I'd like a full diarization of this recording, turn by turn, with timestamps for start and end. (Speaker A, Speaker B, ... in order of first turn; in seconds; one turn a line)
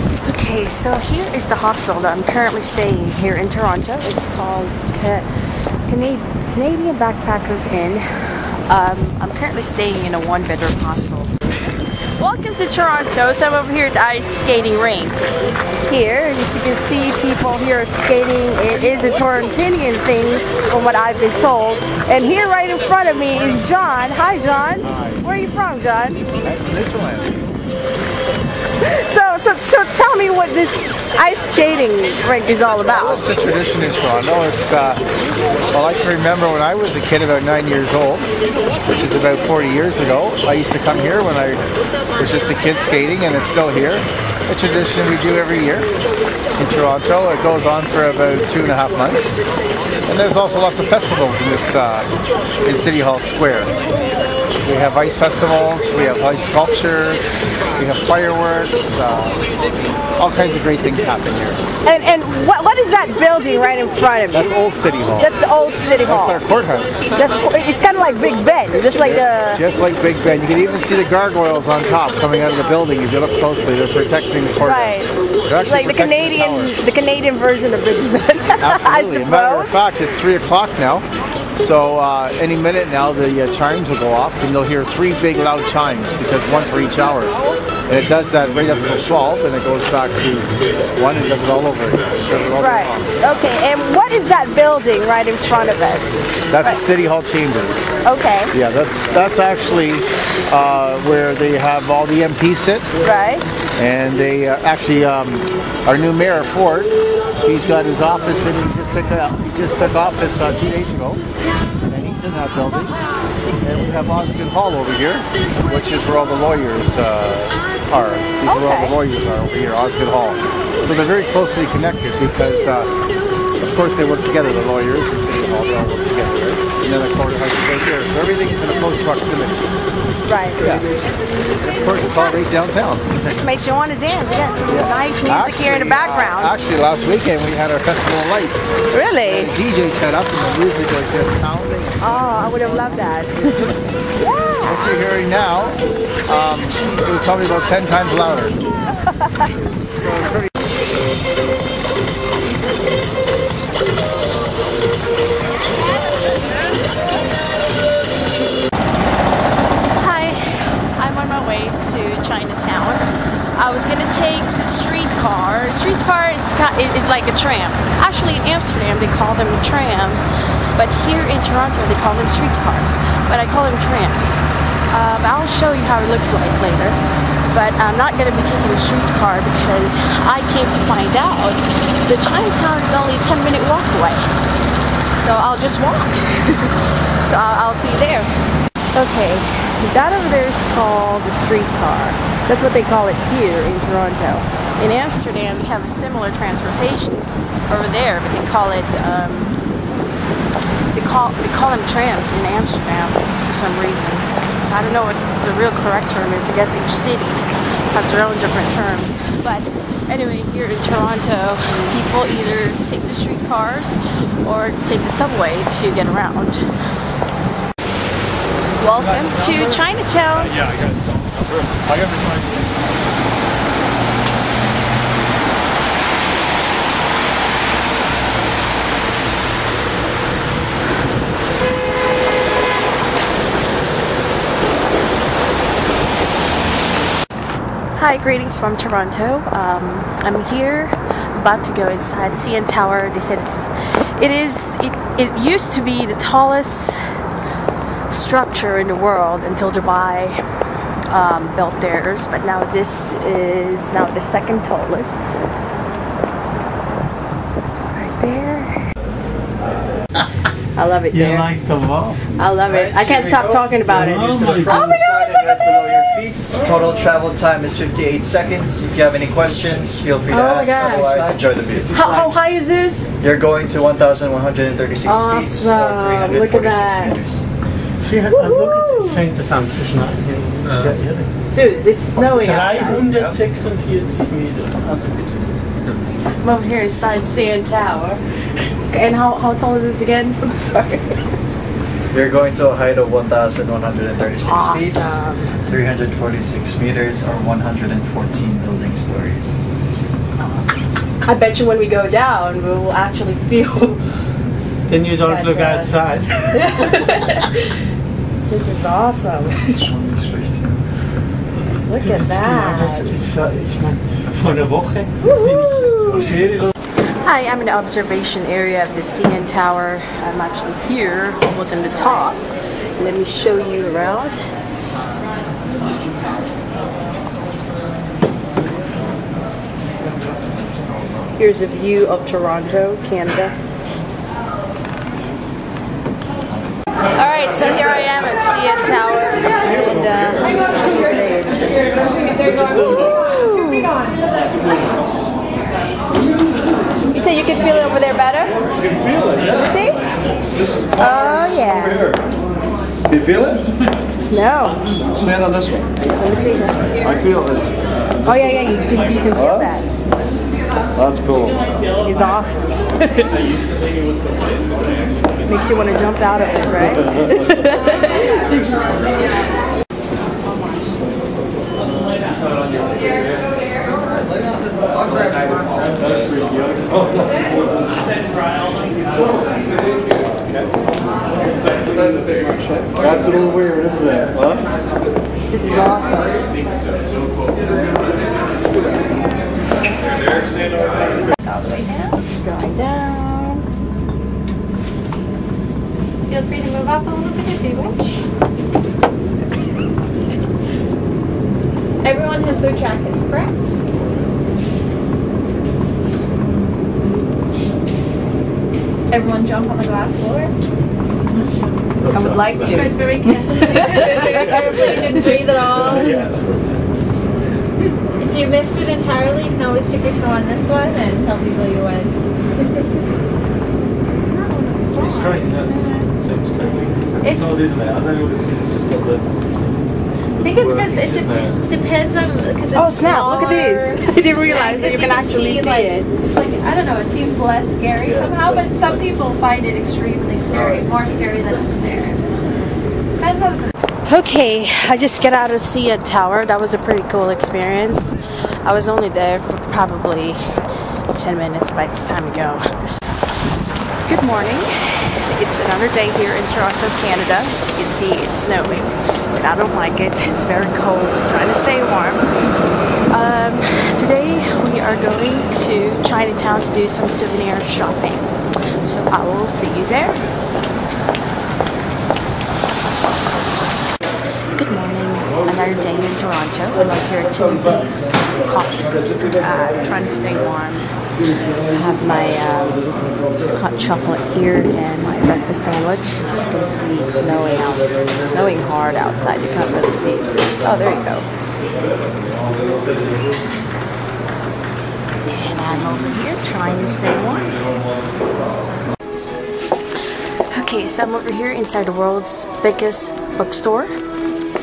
Speaker A: 0.2-5.3
Speaker A: 5.9-8.1
Speaker A: 8.7-11.3
Speaker A: 12.2-15.2
Speaker A: 15.9-26.2
Speaker B: 24.8-25.3
Speaker B: 26.4-27.4
Speaker A: 28.8-33.2
Speaker B: 32.9-35.0
Speaker B: 35.7-38.3
Speaker B: 38.9-41.6
Speaker B: 42.2-45.9
Speaker B: 46.6-49.4
Speaker B: 50.0-52.1
Speaker B: 52.6-53.7
Speaker B: 54.6-59.5
Speaker B: 60.2-61.6
Speaker A: 61.8-64.5
Speaker B: 64.3-65.3
Speaker A: 65.2-66.4
Speaker B: 66.0-67.0
Speaker A: 67.1-69.6
Speaker B: 69.0-76.8
Speaker A: 74.6-79.7
Speaker B: 78.6-81.0
Speaker B: 81.6-87.3
Speaker B: 87.9-93.2
Speaker A: 92.6-96.8
Speaker B: 96.5-97.9
Speaker A: 98.0-98.5
Speaker B: 98.5-102.9
Speaker A: 103.0-103.5
Speaker B: 103.8-106.9
Speaker B: 107.4-111.2
Speaker B: 111.9-112.9
Speaker B: 113.6-122.9
Speaker A: 118.4-119.0
Speaker B: 123.6-129.6
Speaker A: 130.2-130.6
Speaker B: 130.6-130.9
Speaker B: 131.6-133.2
Speaker A: 133.3-136.5
Speaker B: 134.7-143.7
Speaker A: 138.9-139.5
Speaker A: 142.0-144.8
Speaker B: 144.7-148.6
Speaker A: 149.0-149.3
Speaker A: 159.9-163.0
Speaker A: 163.6-174.3
Speaker A: 174.9-184.3
Speaker A: 185.1-188.3
Speaker A: 188.9-199.6
Speaker A: 200.9-216.7
Speaker A: 218.8-220.6
Speaker C: 219.0-219.6
Speaker C: 220.4-222.8
Speaker A: 238.0-247.0
Speaker A: 248.1-250.4
Speaker A: 251.1-255.2
Speaker A: 257.9-258.8
Speaker A: 260.8-261.5
Speaker D: 261.1-262.3
Speaker A: 262.4-265.4
Speaker B: 262.6-266.7
Speaker D: 263.9-265.0
Speaker E: 266.5-271.9
Speaker D: 269.6-269.9
Speaker A: 270.3-271.3
Speaker B: 270.4-270.9
Speaker D: 270.8-272.3
Speaker A: 271.9-273.1
Speaker E: 273.2-277.4
Speaker A: 275.0-277.2
Speaker D: 278.0-281.3
Speaker A: 278.3-279.3
Speaker A: 281.5-283.1
Speaker D: 282.2-285.5
Speaker B: 283.1-283.4
Speaker A: 286.4-288.2
Speaker A: 288.9-291.2
Speaker E: 292.1-299.6
Speaker A: 294.4-295.6
Speaker A: 300.4-304.0
Speaker D: 304.9-306.6
Speaker A: 305.2-305.9
Speaker A: 306.4-307.7
Speaker A: 308.5-309.9
Speaker D: 309.8-310.8
Speaker A: 311.9-313.1
Speaker D: 311.9-316.7
Speaker A: 315.2-316.4
Speaker A: 317.2-322.4
Speaker A: 323.0-324.5
Speaker A: 331.4-333.5
Speaker A: 337.1-344.0
Speaker A: 347.1-348.5
Speaker A: 349.4-350.0
Speaker A: 350.9-352.2
Speaker B: 353.1-353.5
Speaker A: 354.3-354.8
Speaker A: 356.1-357.1
Speaker B: 357.0-357.7
Speaker A: 358.2-359.9
Speaker B: 361.0-361.7
Speaker A: 362.0-363.3
Speaker D: 363.5-364.6
Speaker A: 365.5-368.6
Speaker B: 375.0-376.5
Speaker B: 383.0-384.6
Speaker A: 385.5-386.5
Speaker F: 391.4-392.1
Speaker A: 391.7-393.6
Speaker F: 396.3-398.2
Speaker F: 402.0-403.8
Speaker F: 409.1-410.5
Speaker D: 412.0-413.0
Speaker A: 412.1-415.3
Speaker F: 412.6-416.3
Speaker D: 414.2-417.0
Speaker F: 418.2-422.9
Speaker F: 424.4-426.0
Speaker D: 425.0-429.2
Speaker F: 427.2-427.6
Speaker C: 427.3-429.2
Speaker C: 430.4-431.6
Speaker F: 430.4-442.4
Speaker A: 432.7-436.1
Speaker C: 438.0-439.0
Speaker F: 443.2-443.6
Speaker A: 444.1-450.5
Speaker A: 451.1-453.1
Speaker A: 454.1-462.2
Speaker A: 463.1-468.3
Speaker A: 468.8-470.2
Speaker A: 474.5-480.9
Speaker A: 481.7-491.3
Speaker A: 495.3-497.7
Speaker A: 500.5-503.9